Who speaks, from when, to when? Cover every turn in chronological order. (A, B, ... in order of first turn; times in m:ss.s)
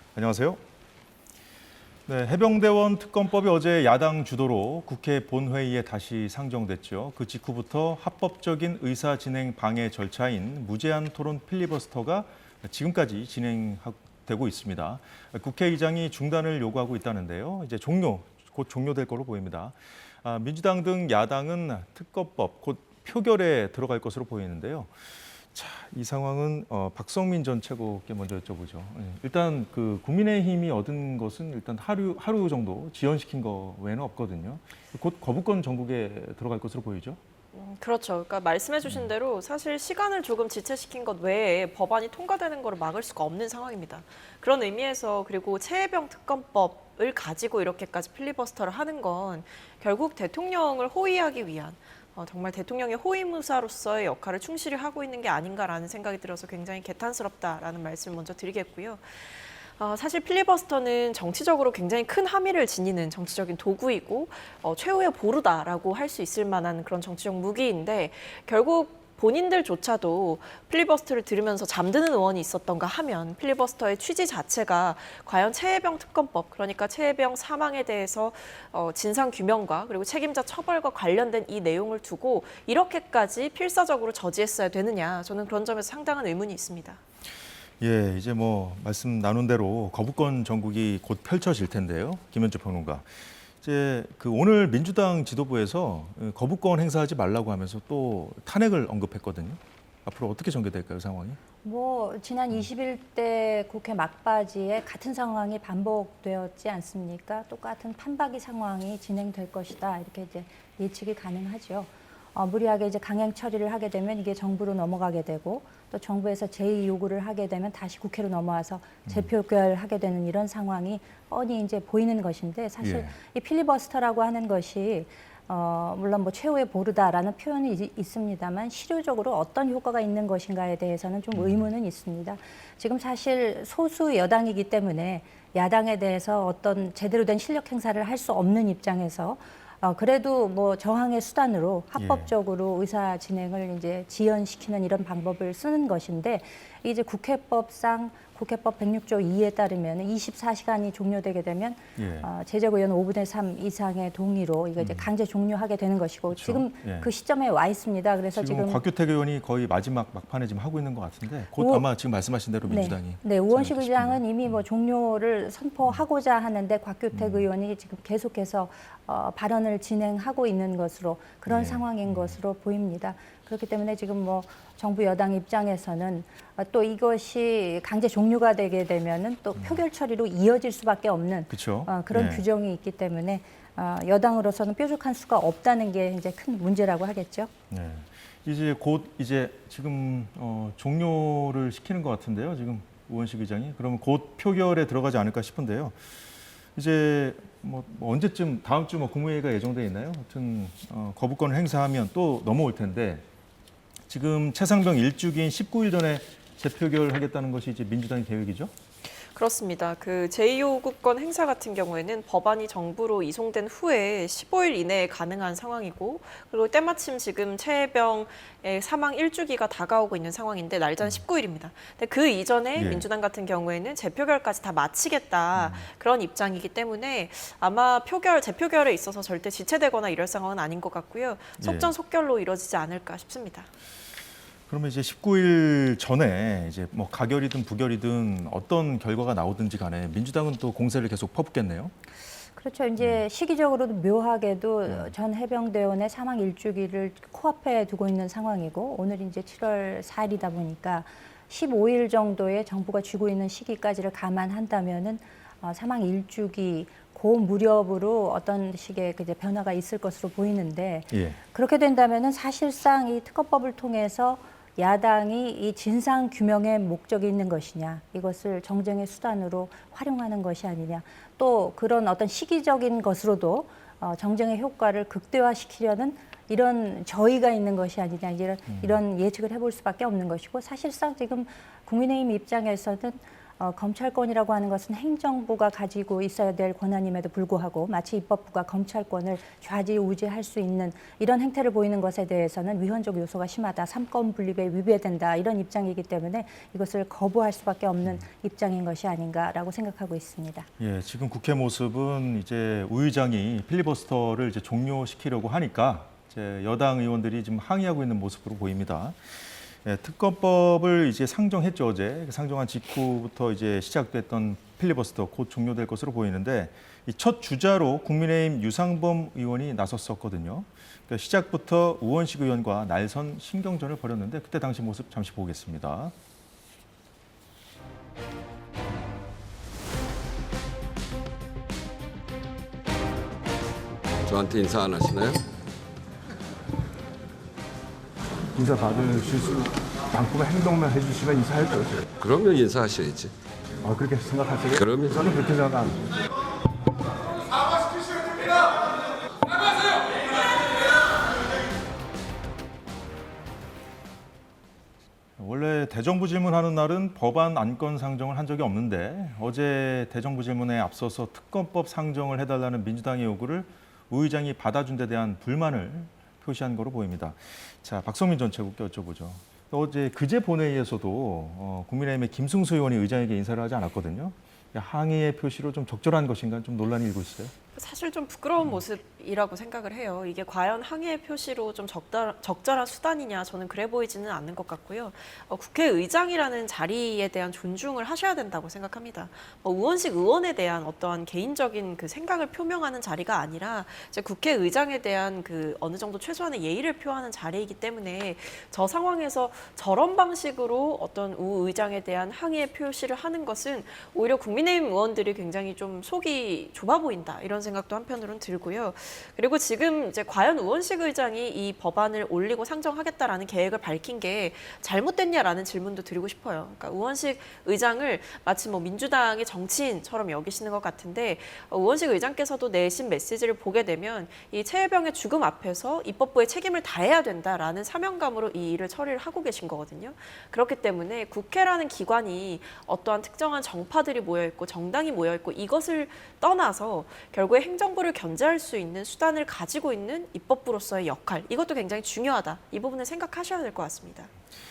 0:00.2-0:00.6 A
0:02.1-0:24.9 A
0:25.5-0:37.2 A
0:37.5-1:27.0 B
1:27.8-1:41.4 A
1:41.6-2:38.8 C
2:02.8-2:03.2 A
2:11.3-2:11.7 A
2:22.0-2:22.3 A
2:32.0-2:32.3 A
2:34.8-2:35.1 A
2:36.3-2:37.1 A
2:38.4-2:44.6 A
2:41.6-2:41.8 C
2:42.7-3:07.5 C
2:47.1-2:47.5 A
2:51.5-2:52.4 A
3:01.5-3:02.4 A
3:07.7-3:16.2 A
3:16.8-3:23.2 A
3:24.1-3:28.7 A
3:29.2-3:53.7 B
3:42.8-3:43.1 A
3:45.6-3:45.9 A
3:51.6-3:51.9 A
3:54.7-4:01.9 A
4:02.6-5:00.7 C
4:21.1-4:21.4 A
4:38.7-4:39.0 A
5:00.8-5:26.1 A
5:34.2-5:35.4 D
5:38.5-5:42.0 E
5:42.0-5:43.3 D
5:43.8-5:46.1 E
5:44.7-5:45.3 D
5:55.4-6:17.5 A
6:17.8-7:24.3 B